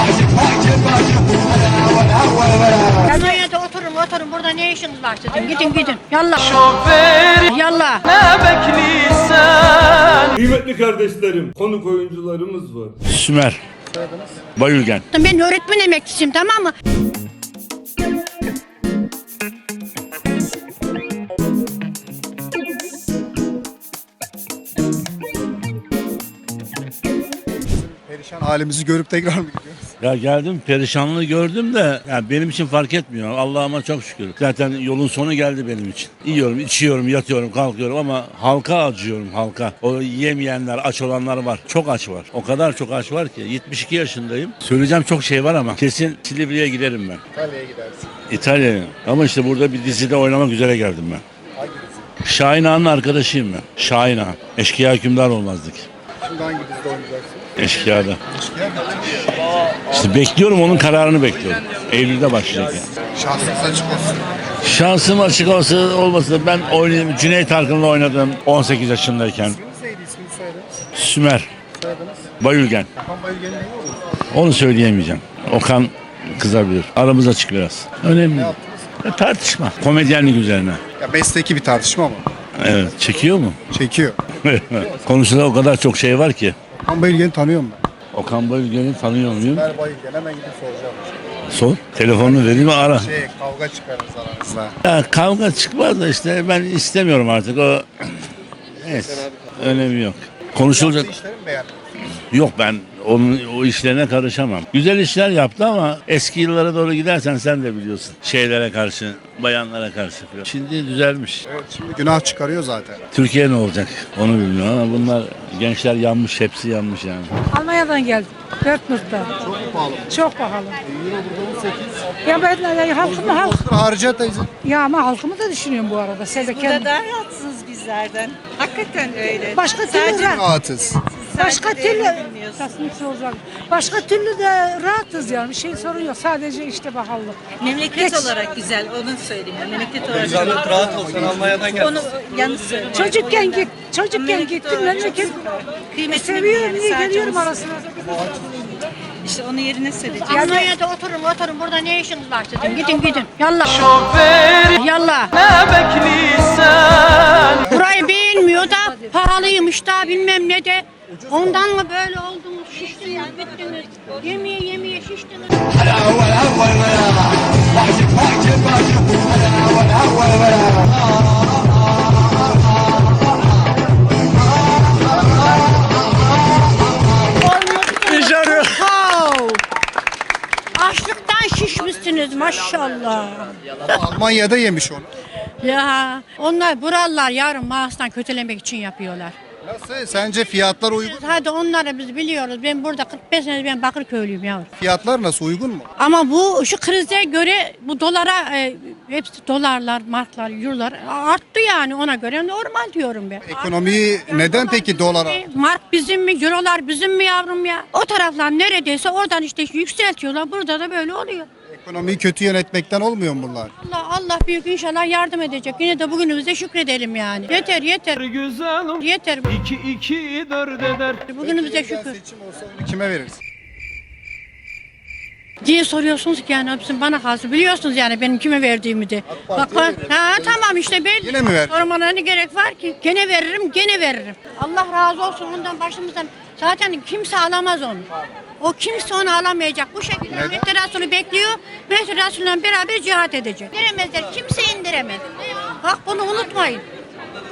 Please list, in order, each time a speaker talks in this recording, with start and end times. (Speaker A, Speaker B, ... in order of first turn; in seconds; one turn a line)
Speaker A: 3.0-9.8
Speaker B: 10.3-13.0
Speaker C: 13.1-13.6
Speaker D: 13.9-14.4
Speaker C: 14.6-15.1
Speaker A: 15.1-16.7
Speaker D: 27.8-29.9
Speaker C: 30.0-47.2
Speaker D: 47.3-48.1
Speaker C: 48.3-51.2
Speaker D: 51.6-52.0
Speaker C: 52.2-55.9
Speaker D: 56.2-57.5
Speaker C: 57.6-58.2
Speaker D: 58.3-59.0
Speaker C: 59.9-62.9
Speaker D: 63.1-64.2
Speaker C: 64.6-69.6
Speaker D: 69.4-70.8
Speaker C: 71.0-71.5
Speaker D: 71.8-72.3
Speaker C: 72.4-72.9
Speaker D: 73.0-74.0
Speaker C: 74.3-80.8
Speaker D: 78.3-79.0
Speaker D: 81.0-82.3
Speaker C: 82.6-83.6
Speaker D: 83.7-84.3
Speaker C: 84.4-86.5
Speaker D: 86.7-87.8
Speaker C: 88.1-89.7
Speaker D: 89.5-91.1
Speaker C: 91.5-93.1
Speaker D: 92.2-94.8
Speaker C: 94.8-98.3
Speaker C: 98.8-101.1
Speaker D: 100.7-101.8
Speaker C: 102.3-111.5
Speaker D: 111.5-113.0
Speaker C: 113.1-117.3
Speaker E: 117.5-119.3
Speaker D: 119.4-120.1
Speaker E: 120.1-120.8
Speaker D: 120.8-122.2
Speaker E: 122.3-123.6
Speaker D: 123.0-124.5
Speaker E: 124.7-126.9
Speaker F: 126.3-130.2
Speaker E: 129.5-130.4
Speaker D: 130.2-131.0
Speaker F: 130.9-133.1
Speaker E: 131.4-137.4
Speaker F: 137.5-147.6
Speaker E: 138.0-138.2
Speaker D: 140.2-141.9
Speaker E: 142.9-145.4
Speaker E: 146.2-147.9
Speaker F: 149.2-150.6
Speaker A: 150.2-166.5
Speaker D: 161.1-161.5
Speaker A: 177.4-179.6
Speaker A: 180.8-183.8
Speaker D: 183.8-185.1
Speaker A: 185.6-189.3
Speaker D: 189.6-191.3
Speaker A: 191.1-194.7
Speaker D: 194.8-195.9
Speaker A: 196.0-211.5
Speaker D: 203.4-205.4
Speaker D: 211.7-213.7
Speaker A: 213.8-218.3
Speaker G: 218.2-221.2
Speaker A: 219.0-219.7
Speaker A: 221.3-222.2
Speaker D: 221.4-223.4
Speaker A: 225.6-238.1
Speaker D: 229.3-230.6
Speaker D: 231.2-231.8
Speaker A: 238.6-246.8
Speaker D: 240.3-240.6